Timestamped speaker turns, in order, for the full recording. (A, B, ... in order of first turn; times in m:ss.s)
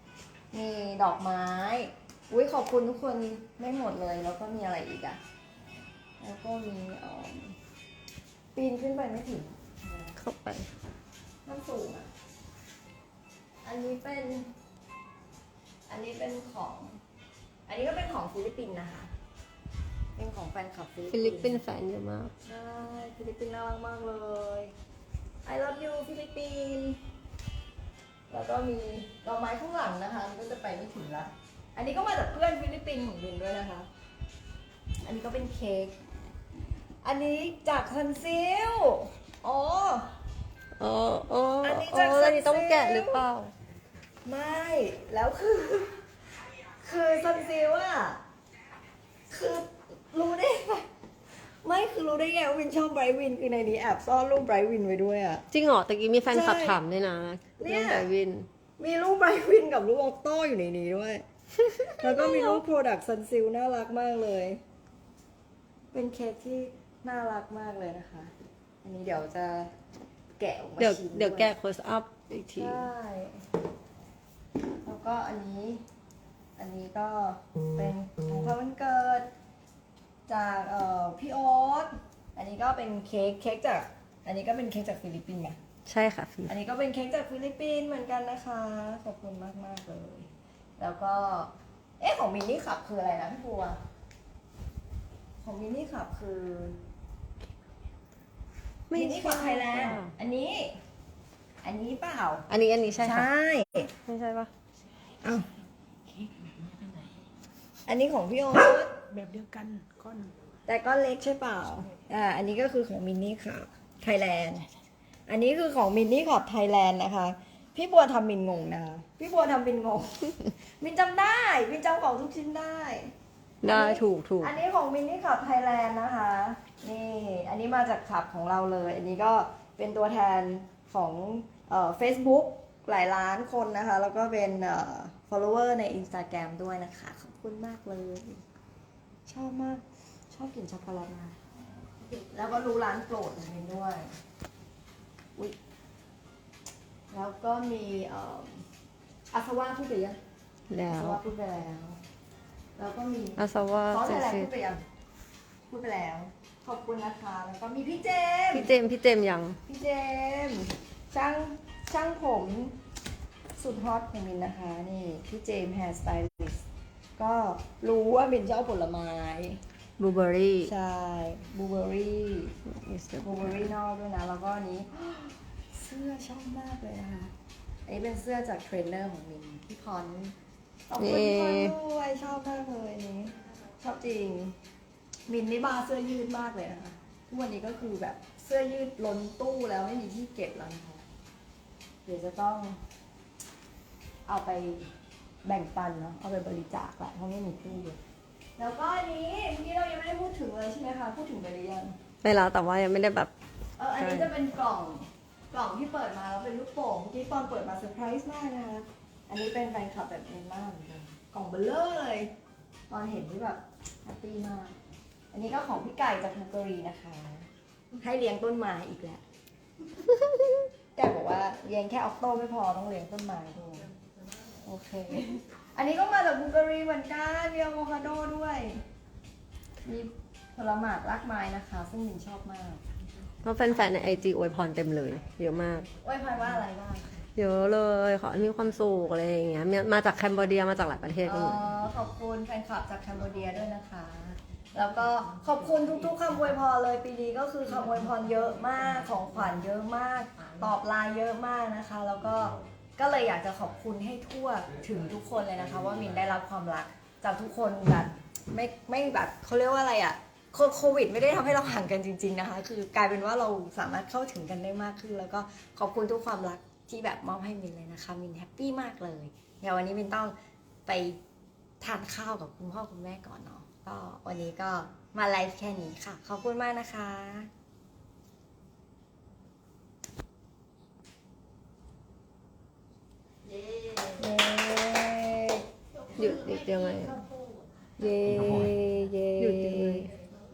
0:00.5-0:05.2 A
0:06.2-0:07.6 A
0:08.5-0:10.2 A
0:10.2-0:10.7 B
0:11.4-0:12.1 A
0:13.6-0:14.5 A
0:15.9-0:17.0 A
0:17.7-0:19.1 A
0:20.2-0:21.6 A
0:21.1-0:22.3 B
0:22.4-0:24.7 A
0:25.4-0:27.0 A
0:28.3-0:33.9 A
0:35.0-0:36.0 A
0:37.0-0:40.1 A
0:40.8-0:43.5 B
0:41.6-0:43.2 A
0:44.2-0:46.0 A
0:46.8-0:48.2 A
0:49.3-0:50.9 A
0:51.6-0:55.4 A
0:55.5-0:58.5 B
0:56.3-0:56.8 A
0:57.6-0:58.1 A
0:58.8-1:01.2 A
1:01.6-1:02.6 B
1:02.0-1:04.6 A
1:05.9-1:08.3 A
1:08.8-1:09.7 A
1:10.4-1:11.5 A
1:10.8-1:12.9 B
1:12.5-1:13.4 A
1:14.8-1:15.8 A
1:16.6-1:19.3 A
1:20.3-1:25.6 A
1:25.8-1:26.5 B
1:26.5-1:33.8 A
1:35.4-1:36.8 A
1:38.9-1:40.1 B
1:38.9-1:40.7 A
1:41.6-1:42.5 A
1:42.5-1:43.3 B
1:43.0-1:43.9 A
1:44.0-1:44.5 B
1:45.2-1:45.5 A
1:46.2-1:47.1 C
1:47.9-1:48.9 A
1:49.1-1:50.3 C
1:50.7-1:54.7 A
1:55.3-2:03.1 A
2:03.6-2:04.5 B
2:03.6-2:18.4 A
2:19.3-2:21.4 A
2:22.2-2:24.1 A
2:27.1-2:28.6 A
2:29.3-2:30.2 A
2:30.7-2:31.2 B
2:30.9-2:32.0 A
2:32.8-2:34.8 A
2:33.4-2:34.5 B
2:35.7-2:38.7 A
2:38.5-2:39.6 B
2:39.7-2:42.8 A
2:43.6-2:46.6 A
2:47.2-2:49.6 A
2:50.0-2:50.7 B
2:50.6-2:52.5 A
2:52.6-2:53.7 B
2:53.2-2:57.3 A
2:57.8-3:00.3 A
3:00.9-3:04.6 A
3:01.0-3:01.8 B
3:05.3-3:11.0 A
3:12.0-3:12.8 A
3:14.3-3:14.9 A
3:15.4-3:18.0 A
3:18.6-3:22.0 A
3:22.2-3:23.3 B
3:23.8-3:32.3 A
3:24.0-3:24.3 B
3:32.9-3:34.8 A
3:35.3-3:37.5 A
3:38.0-3:39.2 A
3:40.9-3:43.9 A
3:44.6-3:48.8 A
3:49.8-3:52.8 A
3:53.4-3:55.9 B
3:56.0-3:57.2 A
3:57.4-4:01.6 B
4:01.2-4:30.3 A
4:30.8-4:31.2 A
4:31.8-4:37.5 A
4:44.2-4:45.6 A
4:46.2-4:47.2 B
4:48.0-4:50.1 A
4:49.4-4:50.1 B